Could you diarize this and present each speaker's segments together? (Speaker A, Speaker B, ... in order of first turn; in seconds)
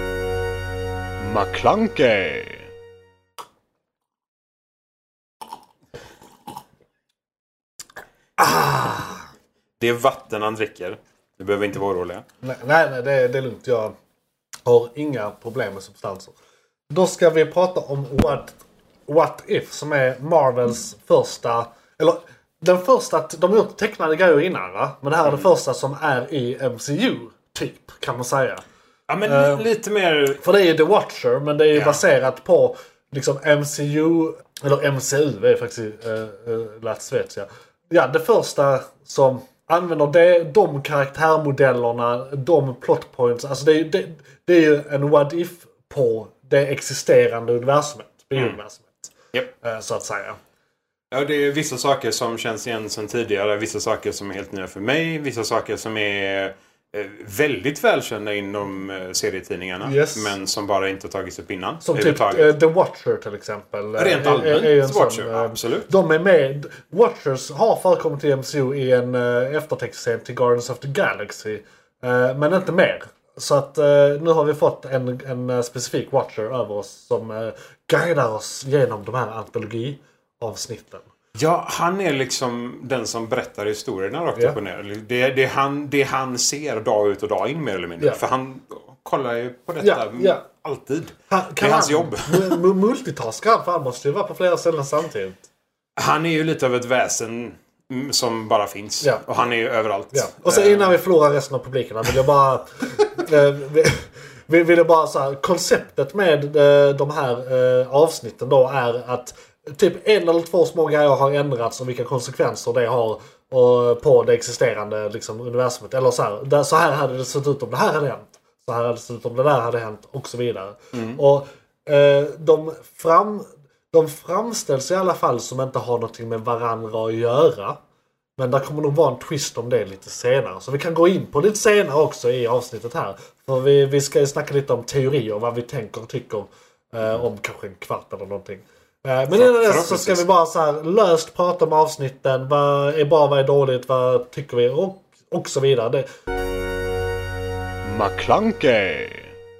Speaker A: 1.2-2.7, 147.8-149.3
Speaker B: 8.4-9.2, 12.4-13.9, 14.7-16.3, 16.9-28.6, 29.2-29.7, 30.4-50.4, 59.8-60.3, 61.8-81.1, 89.8-90.4, 91.3-95.4, 100.1-127.8, 128.4-146.1
Speaker C: 9.8-12.2, 29.1-30.4, 31.7-32.0, 51.1-62.5, 64.0-65.9, 81.3-92.6, 96.0-101.0, 120.9-121.2, 139.3-140.2